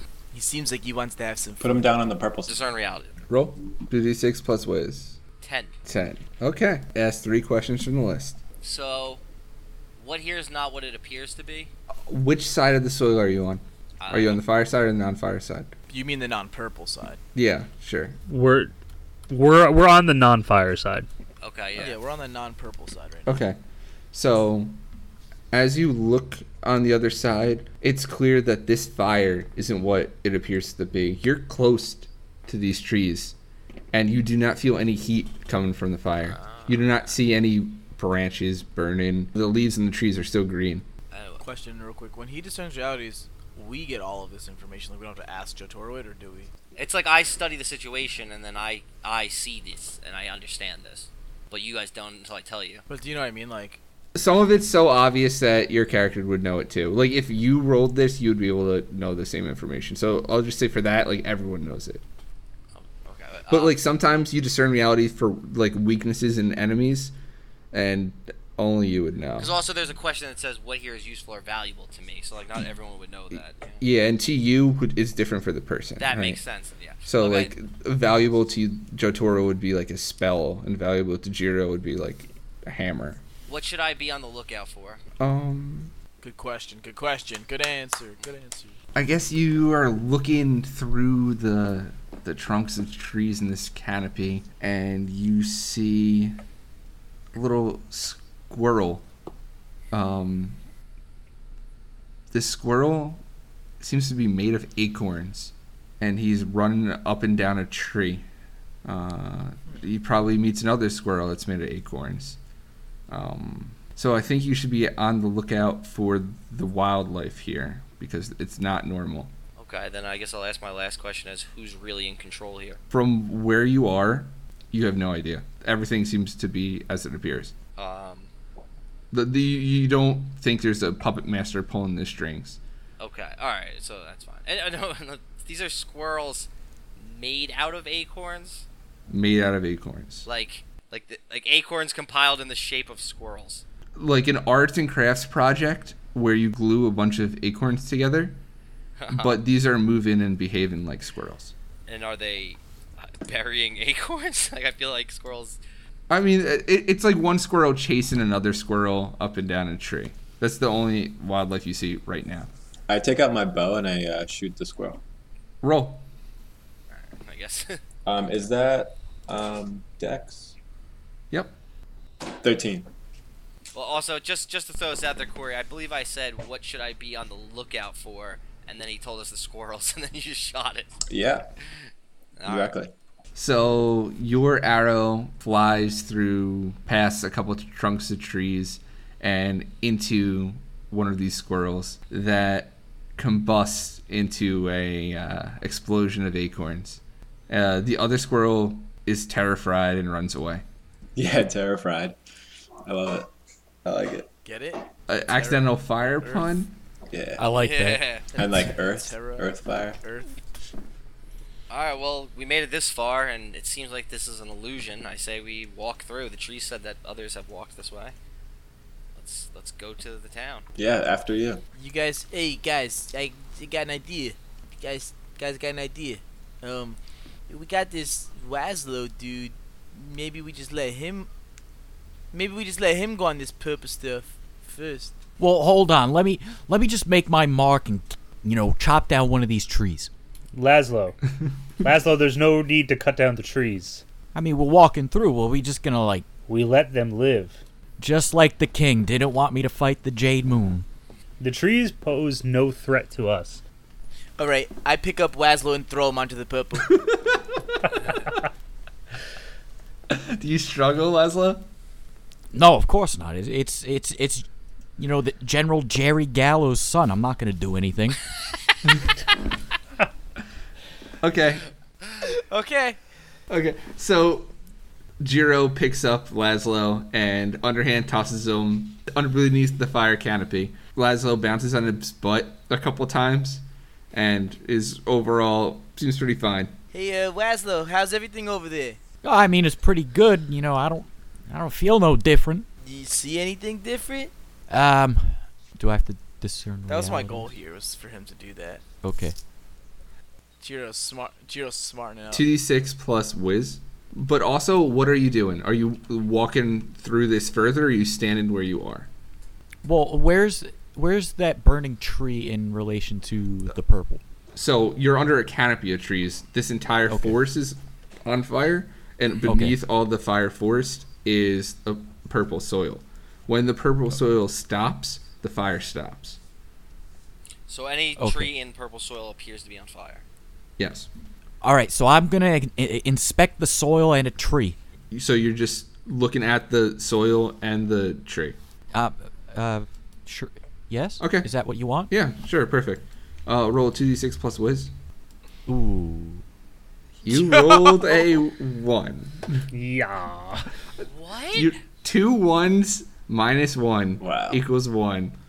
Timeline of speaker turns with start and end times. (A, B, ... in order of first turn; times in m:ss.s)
0:00.3-0:01.7 A
0:01.6-0:02.6 B
0:02.5-0:03.2 C
0:03.3-0:05.2 D
0:05.4-0:05.7 C
0:05.8-0:08.4 D
0:08.6-0:09.2 C
0:10.0-0:11.7 C
0:12.1-0:15.7 D
0:14.0-0:14.4 C
0:15.9-0:17.2 A
0:17.3-0:18.2 D
0:18.3-0:18.7 E
0:19.3-0:21.1 E
0:21.4-0:22.0 C
0:21.8-0:23.3 A
0:23.2-0:23.6 D
0:24.1-0:24.8 D
0:25.5-0:33.4 D
0:33.9-0:40.8 D
0:36.2-0:37.0 C
0:41.1-0:41.4 C
0:41.4-0:46.5 A
0:46.8-0:52.8 C
0:52.9-0:53.8 A
0:54.1-1:02.0 D
1:02.7-1:03.8 C
1:03.5-1:07.1 D
1:07.7-1:09.6 D
1:09.4-1:13.8 C
1:13.8-1:16.4 D
1:16.0-1:17.5 C
1:17.0-1:23.2 D
1:23.5-1:25.0 C
1:25.2-1:25.9 D
1:26.2-1:28.8 A
1:28.9-1:36.4 D
1:37.3-1:39.0 D
1:39.9-1:40.6 D
1:42.3-1:43.2 D
1:43.8-1:48.2 D
1:48.8-1:52.4 D
1:53.1-1:59.3 D
1:59.6-2:02.8 C
2:02.9-2:07.5 D
2:07.8-2:08.3 C
2:09.1-2:12.6 D
2:13.0-2:18.6 C
2:19.1-2:20.2 D
2:20.2-2:23.6 C
2:24.0-2:28.4 D
2:29.0-2:29.3 C
2:29.1-2:31.5 D
2:31.9-2:35.6 C
2:36.1-2:42.5 D
2:42.9-2:45.0 B
2:45.6-2:46.0 D
2:46.9-2:47.8 C
2:48.0-2:50.5 B
2:51.3-2:51.6 D
2:52.4-2:52.9 B
2:53.7-3:01.0 C
3:01.1-3:01.5 B
3:02.4-3:02.7 C
3:02.4-3:02.9 B
3:03.3-3:20.6 D
3:21.2-3:22.2 B
3:22.8-3:23.3 B
3:23.8-3:24.3 B
3:24.4-3:25.6 A
3:25.1-3:26.7 D
3:26.2-3:26.5 A
3:27.1-3:27.4 B
3:27.4-3:28.0 F
3:27.6-3:28.3 C
3:28.3-3:30.0 B
3:28.4-3:30.3 A
3:31.7-3:38.1 C
3:39.1-3:40.7 C
3:40.8-3:41.6 B
3:41.7-3:47.0 A
3:47.5-3:51.3 A
3:52.3-3:55.1 A
3:55.4-4:00.1 F
4:00.5-4:01.2 E
4:01.8-4:04.0 E
4:04.3-4:06.2 F
4:06.5-4:07.6 E
4:08.0-4:10.8 F
4:11.4-4:13.6 E
4:14.4-4:17.0 A
4:16.8-4:17.8 D
4:20.1-4:21.7 D
4:22.5-4:24.4 F
4:25.0-4:28.2 F
4:31.2-4:31.6 D
4:32.2-4:33.0 A
4:33.5-4:34.5 D
4:35.2-4:46.7 D
4:46.9-4:49.0 A
4:49.2-4:52.7 F
4:52.8-4:54.3 A
4:54.7-4:57.5 F
4:56.9-4:58.8 A
4:59.0-4:59.4 F
5:00.6-5:02.4 A
5:02.3-5:09.1 D
5:09.8-5:14.2 F
5:14.5-5:26.4 D
5:19.4-5:19.7 F
5:27.7-5:30.2 C
5:28.2-5:28.5 F
5:30.8-5:31.1 D
5:31.6-5:34.8 F
5:35.1-5:38.6 D
5:38.9-5:42.1 F
5:41.2-5:41.5 D
5:42.1-5:44.9 D
5:45.7-5:46.4 F
5:47.2-5:49.7 D
5:49.7-5:50.7 E
5:51.0-5:51.7 C
5:51.5-5:55.3 D
5:54.2-5:54.6 B